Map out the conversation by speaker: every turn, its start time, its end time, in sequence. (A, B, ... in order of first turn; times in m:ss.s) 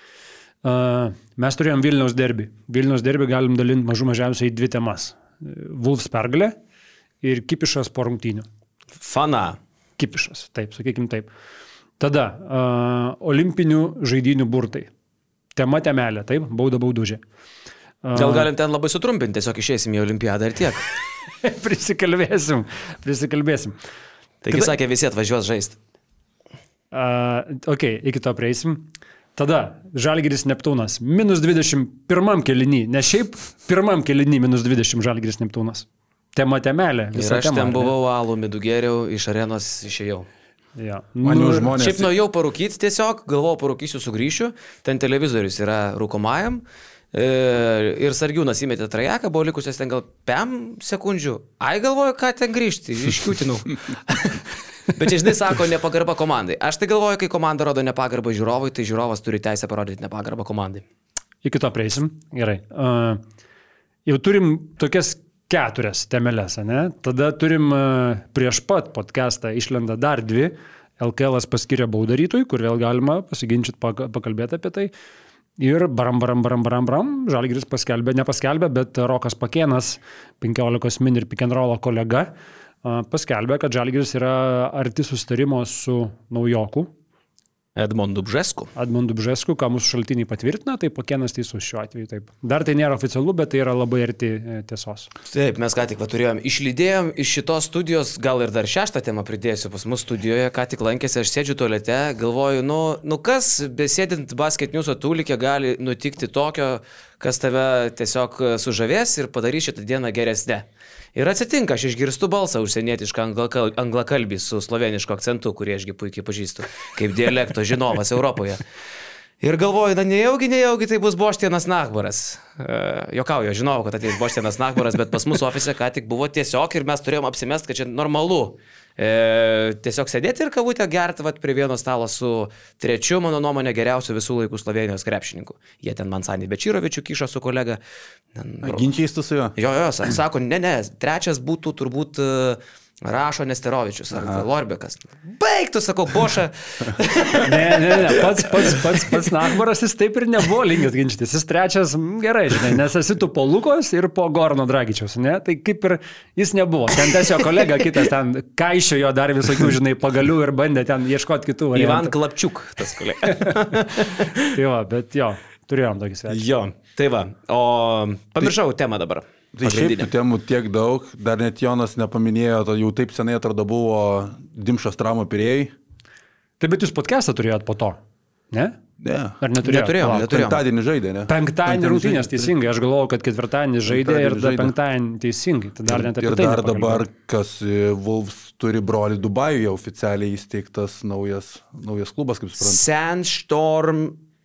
0:00.6-0:06.6 A
0:07.2-0:08.5 A
0:09.0-0:09.6 B
0:10.0-0:11.3 A
0:12.0-0:14.9 A
0:15.6-0:17.2 A
0:18.0-0:18.5 A
0:18.1-0:20.9 B
0:21.4-0:23.7 A
0:24.4-0:25.8 B
0:26.9-0:37.9 A
0:37.1-0:40.3 B
0:40.8-0:41.8 A
0:41.2-0:42.1 C
0:41.8-1:00.8 B
1:01.4-1:03.2 A
1:04.0-1:14.9 A
1:15.6-1:22.3 A
1:22.8-1:26.9 A
1:27.8-1:28.7 B
1:28.7-1:35.1 A
1:35.3-1:58.6 B
1:59.4-2:17.8 B
2:18.3-2:18.9 B
2:18.6-2:19.5 C
2:19.6-2:28.2 B
2:24.1-2:24.4 C
2:27.4-2:42.1 A
2:37.4-2:37.8 B
2:41.7-2:44.5 B
2:43.2-2:43.5 A
2:44.3-2:46.4 A
2:46.3-2:50.1 B
2:49.5-2:55.7 C
2:56.6-2:58.0 A
2:58.5-2:58.8 A
2:59.0-2:59.4 C
2:59.4-3:00.2 A
2:59.6-3:00.6 B
3:00.0-3:02.5 C
3:01.3-3:07.0 A
3:03.8-3:04.7 C
3:05.9-3:12.8 C
3:12.6-3:14.2 B